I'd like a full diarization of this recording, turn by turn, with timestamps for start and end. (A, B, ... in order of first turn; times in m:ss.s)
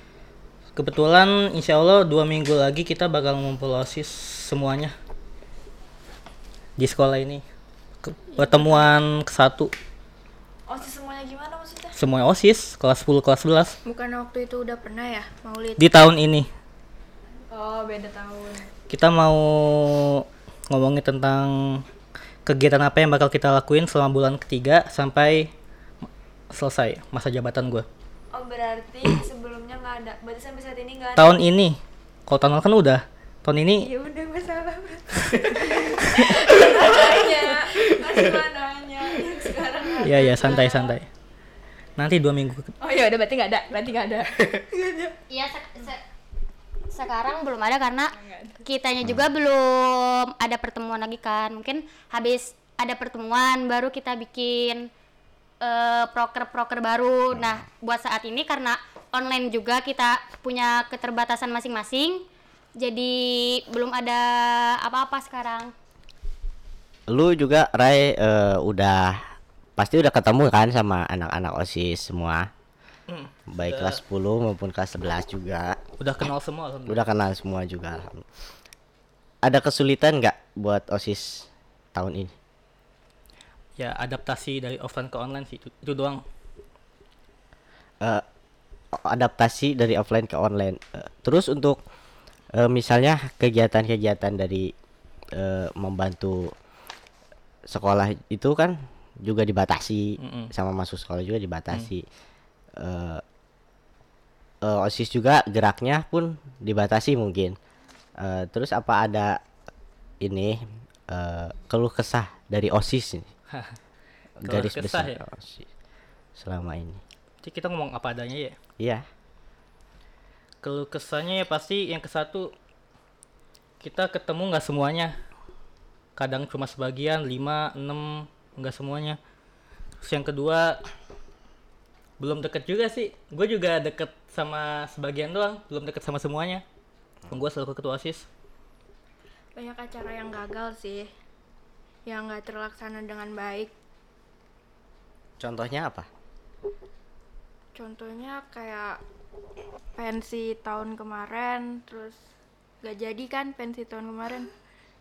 0:00.8-0:04.9 A
0:06.8-0:07.4 A
0:08.0-0:09.7 A
0:10.7-0:12.0 B
0:12.0-0:13.8 A
0:13.8-0:15.8 C
0:15.8-0:16.5 A
0:17.5-0:18.7 B
0:18.9-0:21.8 A
0:22.4-0:25.5 A
0:26.5-0:27.8 A
0:28.3-0:31.3 B
0:31.2-0:33.9 A
0:33.8-0:40.9 B
0:35.2-0:36.3 A
0:40.0-0:41.1 A
0:42.0-0:42.7 A
0:42.8-0:45.2 B
0:45.3-0:46.0 D
0:46.9-0:48.1 D
0:48.1-0:48.6 B
0:48.6-0:54.9 D
0:55.6-1:02.2 D
0:57.3-0:57.6 E
1:02.8-1:05.7 D
1:07.1-1:12.5 E
1:13.1-1:14.0 A
1:13.5-1:15.8 E
1:16.0-1:17.0 A
1:16.9-1:18.2 E
1:19.4-1:22.3 E
1:23.8-1:26.2 A
1:28.9-1:31.8 E
1:32.5-1:34.7 E
1:35.3-1:36.5 E
1:37.7-1:42.0 E
1:40.2-1:40.5 A
1:42.8-1:43.2 E
1:44.6-1:47.6 E
1:48.2-1:49.4 E
1:50.2-1:53.3 E
1:54.4-1:55.7 E
1:54.4-1:55.2 A
1:56.4-1:57.0 E
1:57.4-1:58.6 A
1:58.8-1:59.0 E
2:00.6-2:02.5 A
2:03.8-2:05.2 A
2:06.2-2:09.2 A
2:10.0-2:10.8 A
2:12.2-2:16.6 A
2:17.3-2:18.3 A
2:19.6-2:21.1 C
2:22.0-2:23.7 C
2:25.4-2:26.1 E
2:27.7-2:29.0 C
2:30.0-2:32.2 C
2:32.8-2:34.5 C